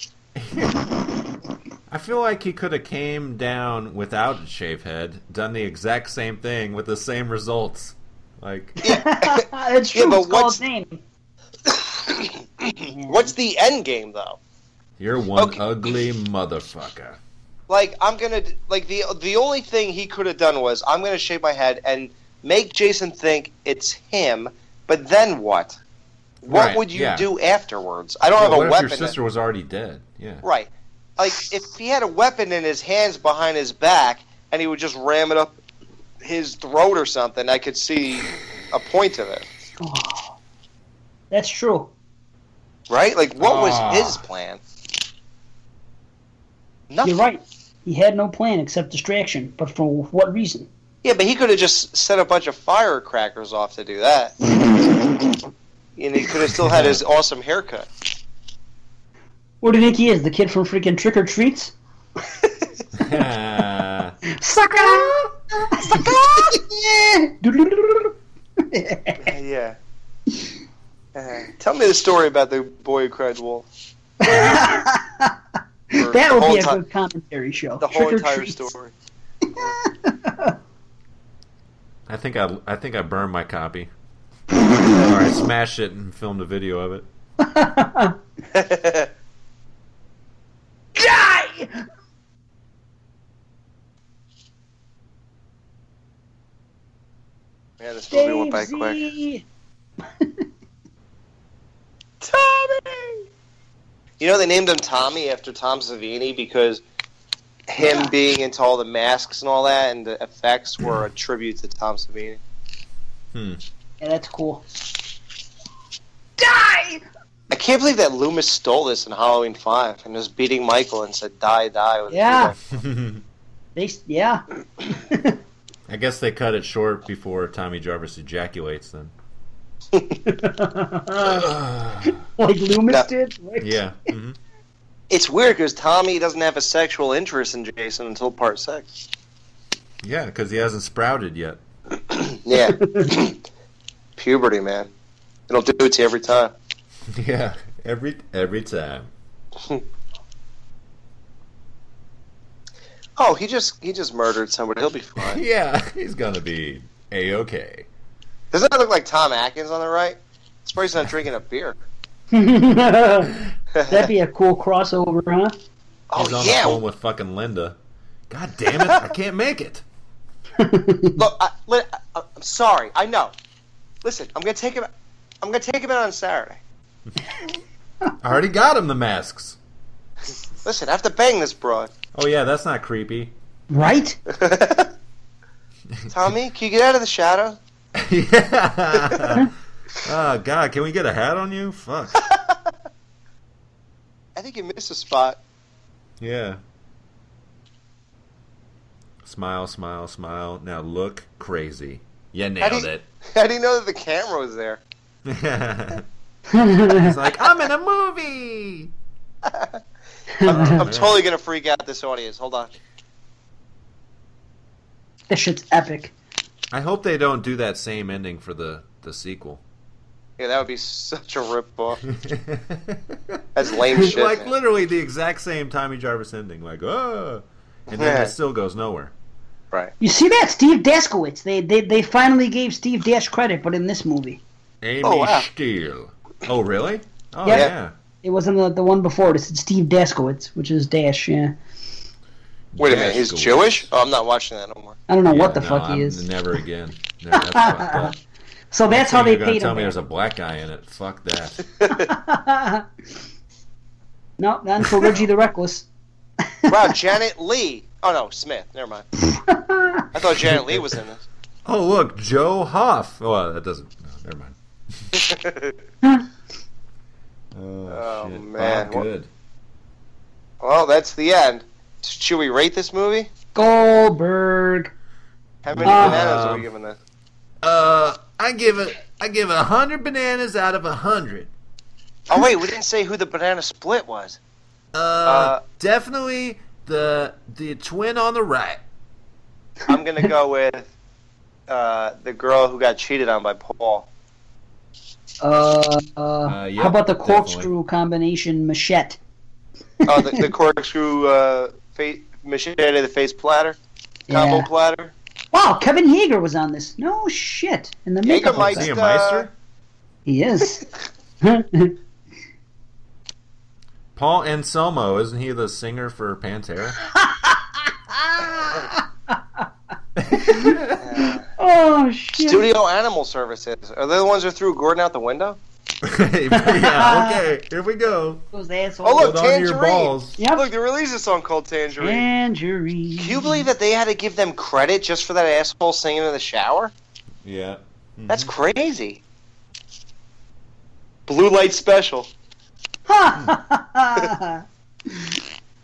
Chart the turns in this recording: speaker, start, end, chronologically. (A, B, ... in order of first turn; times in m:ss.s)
0:00.4-0:00.8 A
0:01.9-0:08.8 A
0:08.8-0:11.0 B
0:08.8-0:10.6 C
0:11.6-0:14.4 C
0:12.9-0:13.3 B
0:15.0-0:17.2 A
0:17.7-0:25.8 C
0:26.4-0:27.3 A
0:26.4-0:29.1 C
0:28.4-0:30.4 A
0:30.4-0:35.6 C
0:36.2-0:39.4 C
0:39.8-0:40.4 B
0:41.3-0:41.9 B
0:42.9-0:44.6 C
0:43.4-0:44.2 A
0:46.9-0:47.2 C
0:47.0-0:50.7 B
0:51.0-0:54.4 C
0:56.0-0:57.9 C
0:56.6-0:57.0 A
0:59.6-1:01.7 B
1:03.0-1:04.1 A
1:04.3-1:09.3 B
1:09.2-1:09.8 C
1:11.1-1:13.6 C
1:14.2-1:15.3 B
1:15.9-1:18.7 B
1:15.9-1:16.8 C
1:17.8-1:18.9 C
1:19.4-1:20.6 B
1:22.1-1:23.9 A
1:24.8-1:27.0 A
1:27.4-1:28.2 B
1:28.5-1:29.1 C
1:30.9-1:31.8 B
1:37.8-1:39.0 C
1:38.1-1:39.4 B
1:40.2-1:40.4 B
1:42.2-1:43.2 C
1:44.2-1:46.8 C
1:47.7-1:52.4 C
1:47.8-1:48.1 B
1:53.3-1:53.6 A
1:54.0-1:54.6 B
1:56.4-1:57.0 B
1:57.5-2:02.7 C
2:02.1-2:02.5 B
2:02.7-2:03.2 A
2:03.7-2:05.4 B
2:05.9-2:09.1 A
2:09.9-2:10.2 C
2:10.2-2:11.5 B
2:11.2-2:12.2 A
2:12.0-2:13.8 B
2:13.6-2:14.4 A
2:15.1-2:18.9 C
2:20.0-2:21.6 A
2:22.1-2:23.4 C
2:22.8-2:23.1 B
2:24.2-2:24.9 C
2:25.5-2:26.5 C
2:27.1-2:29.1 A
2:33.2-2:35.4 C
2:35.2-2:37.9 A
2:38.5-2:41.8 C
2:42.3-2:43.3 B
2:43.7-2:44.1 C
2:43.9-2:45.5 B
2:46.1-2:46.8 C
2:46.2-2:47.8 A
2:48.3-2:49.8 A
2:50.6-2:51.2 B
2:51.2-2:53.3 C
2:54.0-2:54.9 C
2:55.4-2:56.6 C
2:58.2-2:59.6 A
3:00.6-3:01.9 C
3:02.1-3:03.3 A
3:03.7-3:04.2 B
3:04.3-3:04.9 C
3:06.1-3:07.6 C
3:08.0-3:09.5 A
3:10.0-3:12.2 A
3:14.4-3:15.4 C
3:16.2-3:16.6 A
3:19.2-3:23.0 A
3:22.6-3:24.8 C
3:25.2-3:26.0 A
3:26.5-3:27.1 B
3:26.9-3:28.9 A
3:29.4-3:29.8 C
3:30.3-3:30.8 B
3:30.4-3:32.7 C
3:30.5-3:31.2 A
3:35.3-3:36.1 B
3:36.7-3:39.6 A
3:40.4-3:42.0 C
3:42.1-3:49.1 A
3:43.5-3:44.5 C
3:47.9-3:48.3 C
3:50.0-3:54.4 B
3:54.8-3:57.9 A
3:55.0-3:55.4 C
3:58.2-4:01.6 B
4:02.7-4:03.9 A
4:02.8-4:05.0 C
4:05.1-4:06.2 B
4:05.3-4:08.1 A
4:07.3-4:08.1 B
4:08.7-4:10.0 B
4:08.9-4:11.6 A
4:11.8-4:12.8 B
4:14.4-4:15.9 B
4:16.4-4:16.9 B
4:16.7-4:19.0 C
4:19.3-4:20.1 B
4:20.1-4:21.2 C
4:20.6-4:20.8 A
4:21.6-4:24.6 A
4:25.1-4:25.7 C
4:27.5-4:29.3 A
4:27.9-4:29.0 C
4:30.6-4:33.3 C
4:33.5-4:34.9 B
4:35.6-4:37.0 C
4:35.7-4:36.6 A
4:35.8-4:36.2 B
4:37.6-4:41.5 A
4:42.3-4:44.4 C
4:44.9-4:48.8 A
4:45.2-4:45.6 C
4:49.9-4:50.9 C
4:51.7-4:54.1 C
4:55.4-4:59.2 B
4:56.4-4:57.7 A
5:00.0-5:03.8 C
5:00.1-5:00.4 B
5:04.3-5:04.7 B
5:04.3-5:05.1 C
5:05.5-5:08.9 B
5:08.2-5:09.5 C
5:08.5-5:09.5 A
5:10.2-5:10.8 B
5:11.4-5:11.9 B
5:14.1-5:17.0 A
5:17.0-5:19.6 B
5:20.2-5:21.0 A
5:20.3-5:20.9 B
5:21.0-5:21.4 C
5:21.6-5:22.7 B
5:22.4-5:25.6 C
5:26.0-5:28.4 A
5:26.5-5:27.4 B
5:28.5-5:29.3 B
5:29.0-5:32.2 C
5:29.2-5:30.3 A
5:30.4-5:30.6 B
5:32.0-5:33.7 B
5:33.2-5:36.9 C
5:37.4-5:38.5 A
5:38.3-5:39.2 C
5:41.3-5:42.3 C
5:43.1-5:45.3 B